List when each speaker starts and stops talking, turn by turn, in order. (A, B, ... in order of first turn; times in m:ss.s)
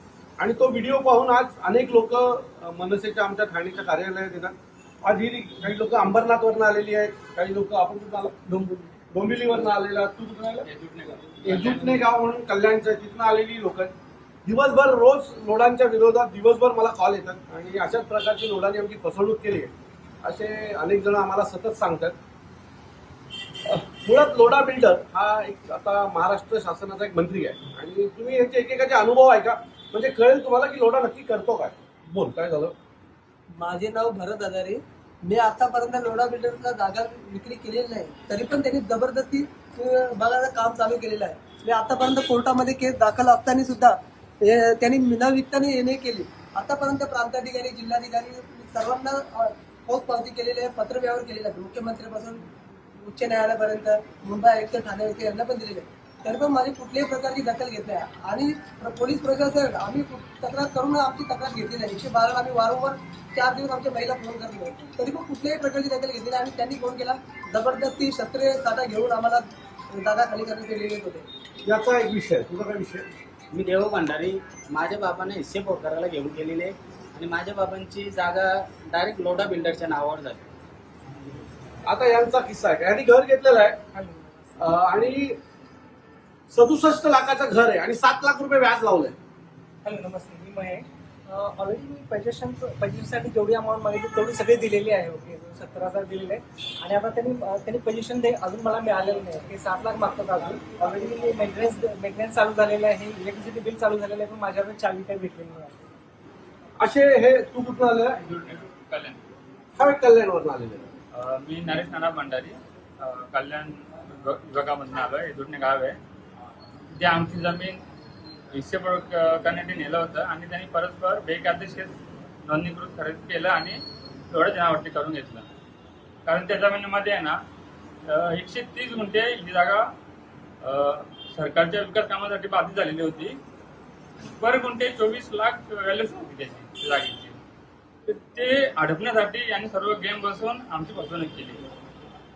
0:00.4-0:10.7 A
0:11.4-0:13.9 A
0:14.4-0:22.2 A
0:23.6-0:32.7 A
0:33.6-0:52.5 B
0:53.0-1:11.2 B
1:11.6-1:13.1 A
1:13.5-1:20.4 C
1:21.9-1:23.8 A
1:23.9-1:24.5 D
1:24.6-1:25.4 A
1:26.5-1:29.2 A
1:29.8-1:45.8 D
1:46.8-1:48.2 A
1:48.2-1:49.2 E
1:49.8-1:50.9 A
1:51.1-1:56.0 E
1:57.0-1:57.8 E
1:58.5-2:05.5 E
2:06.3-2:07.4 E
2:08.1-2:09.8 E
2:10.6-2:13.4 E
2:14.2-2:17.4 E
2:18.1-2:21.6 E